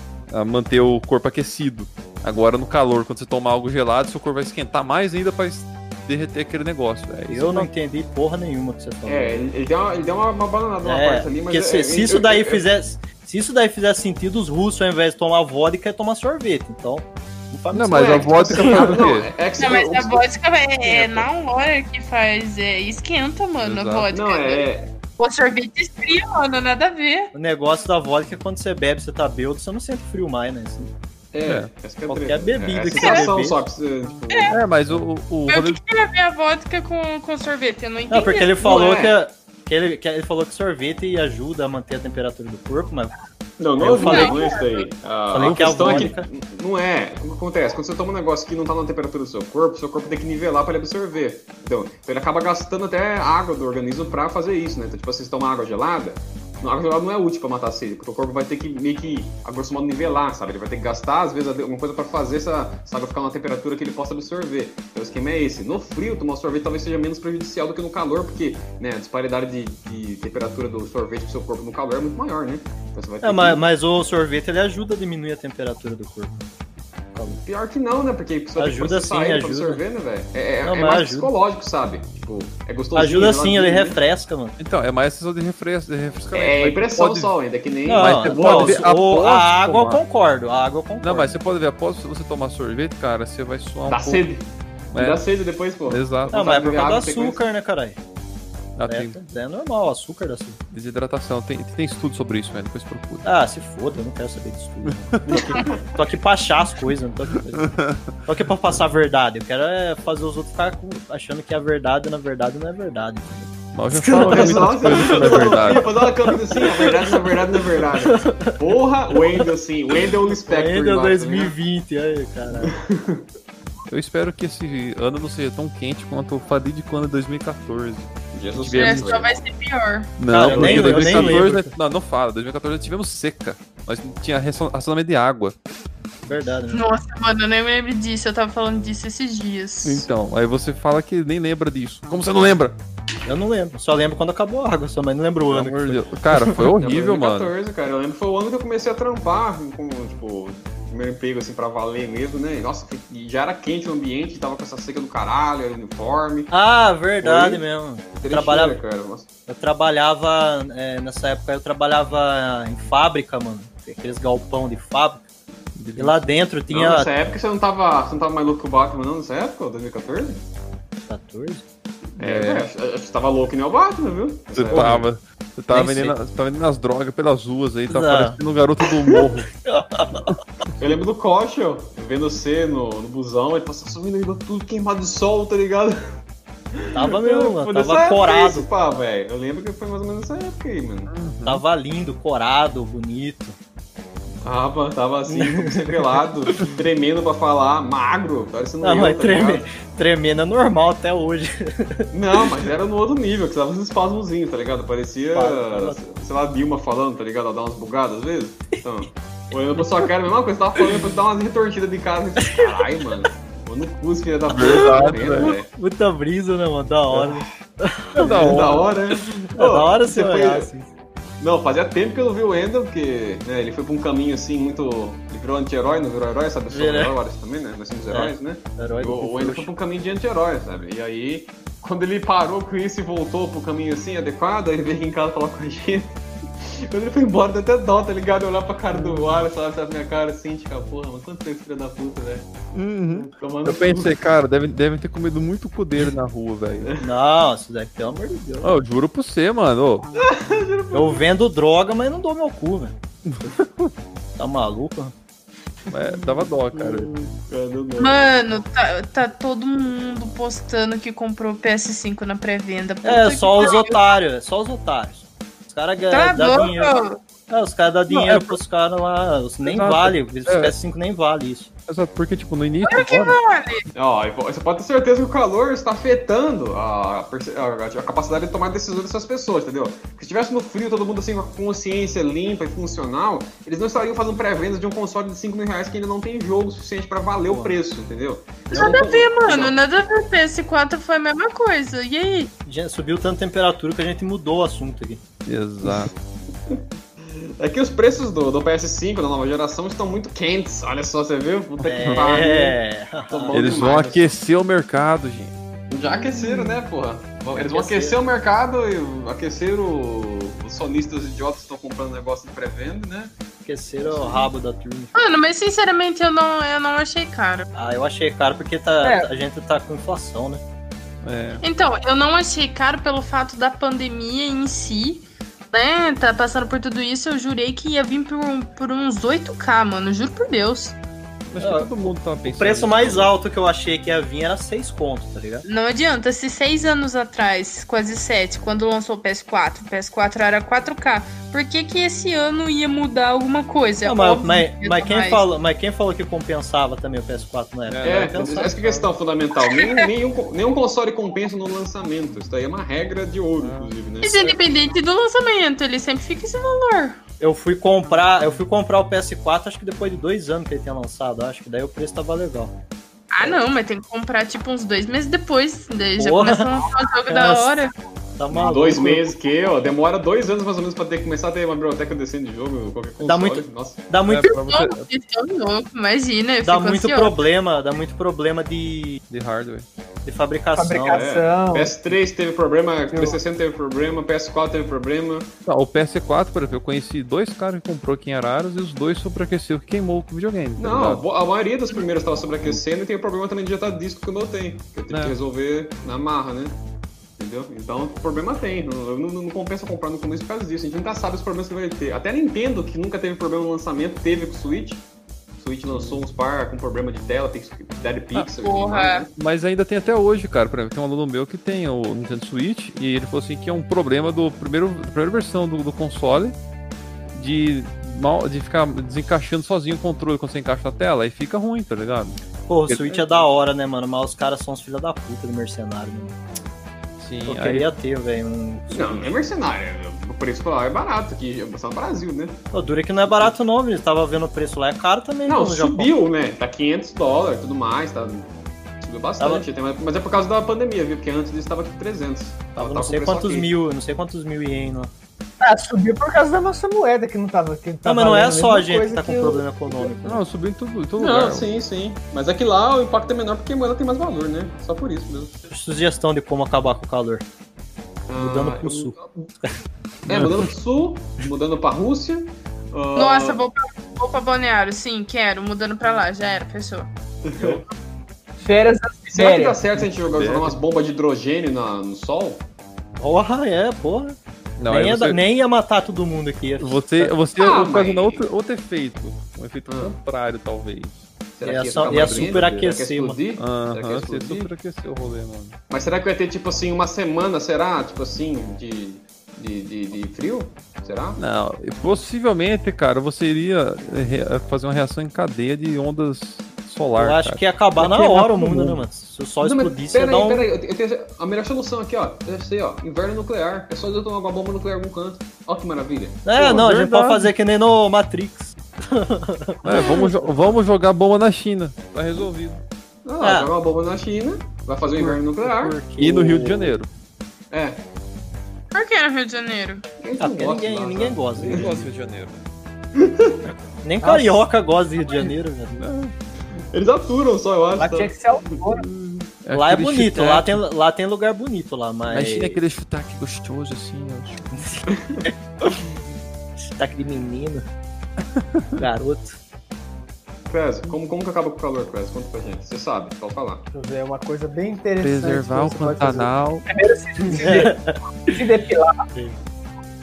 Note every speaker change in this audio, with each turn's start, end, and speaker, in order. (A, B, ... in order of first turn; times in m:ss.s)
0:00.3-0:07.7 A
0:07.3-0:09.5 B
0:09.1-0:12.6 C
0:10.8-0:19.0 B
0:17.7-0:19.3 A
0:18.0-0:20.2 C
0:19.6-0:27.3 D
0:20.9-0:21.2 B
0:23.6-0:24.1 A
0:24.1-0:25.0 C
0:27.3-0:30.9 B
0:31.3-0:34.6 C
0:31.4-0:31.7 A
0:32.1-0:33.6 B
0:33.0-0:33.2 D
0:34.5-0:35.8 A
0:35.5-0:38.8 D
0:38.1-0:43.1 B
0:38.6-0:39.2 C
0:43.6-1:13.6 C
0:43.8-0:44.5 B
0:44.0-0:44.9 D
0:45.3-0:46.3 B
0:45.5-0:46.1 A
1:13.2-1:16.4 B
1:17.1-1:17.4 B
1:17.4-1:24.0 C
1:18.6-1:19.8 B
1:20.6-1:21.3 B
1:23.0-1:24.6 B
1:24.6-1:27.3 A
1:26.3-1:28.9 C
1:27.9-1:31.3 B
1:27.9-1:30.0 A
1:31.0-1:34.2 A
1:33.9-1:37.4 C
1:34.9-1:35.2 A
1:35.9-1:36.4 A
1:36.3-1:38.0 B
1:38.8-1:39.2 A
1:38.9-1:40.6 B
1:40.7-1:43.2 A
1:43.2-1:59.4 B
1:44.9-1:45.3 A
1:45.3-1:46.0 C
1:47.6-1:48.2 A
1:53.7-1:56.0 A
1:54.0-2:01.6 C
2:00.4-2:02.8 B
2:02.6-2:03.2 C
2:03.9-2:09.3 A
2:08.3-2:09.4 C
2:08.8-2:10.1 D
2:10.2-2:15.6 A
2:10.3-2:11.8 B
2:10.4-2:11.5 C
2:16.2-2:16.8 B
2:16.7-2:20.1 D
2:19.8-2:22.8 A
2:23.3-2:26.1 B
2:25.5-2:27.5 A
2:26.5-2:36.5 C
2:36.5-2:38.8 B
2:37.2-2:37.6 C
2:38.2-2:39.3 C
2:39.5-2:45.2 B
2:45.8-2:46.4 A
2:46.0-2:47.1 B
2:46.7-2:50.4 C
2:51.1-2:51.6 B
2:52.2-2:52.7 A
2:52.2-2:55.1 C
2:54.5-2:59.5 A
2:54.7-2:55.0 B
2:55.7-2:56.2 B
2:57.9-2:58.4 B
2:59.6-3:00.4 B
3:00.8-3:06.0 C
3:06.7-3:11.1 C
3:06.9-3:08.7 B
3:11.1-3:11.6 A
3:11.4-3:13.6 B
3:14.4-3:19.7 C
3:15.3-3:16.1 B
3:18.8-3:22.1 B
3:22.1-3:35.7 C
3:25.3-3:26.0 B
3:32.4-3:32.9 B
3:34.5-3:35.6 A
3:34.7-3:40.9 B
3:38.2-3:38.9 A
3:38.2-3:40.7 C
3:41.4-4:04.2 C
3:46.7-3:47.2 B
3:48.1-3:49.7 B
4:02.7-4:06.9 A
4:07.0-4:08.8 B
4:08.6-4:10.1 A
4:10.2-4:11.3 C
4:10.9-4:13.0 B
4:13.3-4:13.9 A
4:14.4-4:15.1 B
4:15.9-4:17.1 A
4:16.0-4:18.4 C
4:18.0-4:24.1 D
4:23.0-4:27.0 B
4:26.1-4:27.2 D
4:27.5-4:31.7 B
4:28.1-4:28.6 A
4:29.7-4:30.8 A
4:31.9-4:33.4 A
4:32.8-4:33.9 D
4:33.9-4:49.8 C
4:47.5-4:47.8 B
4:48.7-4:52.5 D
4:52.6-4:55.2 B
4:55.5-4:56.1 A
4:56.7-5:02.8 C
5:01.8-5:03.7 B
5:02.0-5:02.3 A
5:03.3-5:04.3 C
5:03.5-5:05.6 A
5:05.9-5:13.3 C
5:06.2-5:06.7 D
5:07.5-5:08.2 B
5:13.6-5:15.2 B
5:14.0-5:14.5 C
5:15.2-5:17.7 D
5:17.7-5:20.6 B
5:19.0-5:19.3 E
5:21.2-5:21.6 A
5:21.6-5:31.0 D
5:31.5-5:33.3 A
5:31.6-5:35.6 B
5:35.6-5:45.4 D
5:44.0-5:48.8 B
5:47.9-5:49.1 A
5:48.0-5:54.6 C
5:49.6-5:50.0 D
5:53.6-5:53.9 A
5:54.2-5:57.2 D
5:57.4-6:02.8 B
6:03.3-6:07.9 D
6:06.2-6:06.7 B
6:07.3-6:07.8 B
6:08.4-6:09.3 B
6:08.5-6:14.0 C
6:13.2-6:14.6 B
6:14.3-6:15.1 A
6:14.5-6:17.4 D
6:16.6-6:19.2 B
6:19.3-6:19.9 A
6:20.2-6:21.2 B
6:20.8-6:22.0 E
6:21.0-6:25.5 C
6:23.1-6:23.4 E
6:25.7-6:31.2 A
6:30.8-6:36.8 C
6:35.1-6:35.4 A
6:37.4-6:45.0 C
6:45.6-6:49.3 C
6:45.9-6:46.2 A
6:48.6-6:49.2 D
6:49.4-6:56.6 A
6:57.3-7:02.4 A
7:02.7-7:06.4 B
7:02.9-7:03.4 A
7:07.2-7:07.9 A
7:07.5-7:09.3 B
7:08.9-7:12.6 C
7:12.7-7:16.1 B
7:15.4-7:23.7 C
7:19.4-7:19.7 B
7:22.8-7:25.1 B
7:25.6-7:30.1 E
7:28.0-7:30.4 B
7:30.2-7:31.7 A
7:31.2-7:35.6 C
7:35.7-7:37.4 B
7:38.3-7:39.5 C
7:38.4-7:39.8 B
7:40.3-7:43.6 C
7:43.2-7:47.1 D
7:47.4-7:47.8 C
7:48.6-7:50.0 E
7:49.3-7:52.7 C
7:50.3-7:50.7 A
7:53.2-7:54.4 B
7:54.8-7:55.4 A
7:54.9-7:57.3 B
7:56.8-8:01.2 A
7:57.6-7:58.5 C
7:59.9-8:00.2 C
8:01.6-8:04.7 C
8:01.6-8:03.4 B
8:02.0-8:02.9 A
8:03.6-8:05.8 A
8:05.9-8:11.4 C
8:11.4-8:19.0 A
8:17.2-8:20.7 B
8:19.6-8:26.6 C
8:26.4-8:30.3 B
8:26.6-8:27.5 A
8:29.8-8:32.8 A
8:33.3-8:36.0 C
8:33.4-8:33.7 B
8:35.2-8:37.0 B
8:36.1-8:37.1 A
8:37.7-8:38.0 C
8:38.9-8:40.0 D
8:40.2-8:42.0 C
8:40.4-8:42.1 B
8:41.6-8:42.6 A
8:43.2-8:43.6 C
8:44.0-8:46.0 B
8:44.2-8:44.6 E
8:46.0-8:46.3 A
8:46.9-8:49.5 C
8:48.0-8:49.0 E
8:49.6-8:50.8 A
8:49.7-8:52.8 B
8:52.3-8:55.0 A
8:55.1-8:55.5 C
8:56.8-8:57.9 B
8:59.0-8:59.6 B
9:00.7-9:03.8 C
9:03.9-9:09.2 E
9:05.2-9:06.9 A
9:07.5-9:08.1 B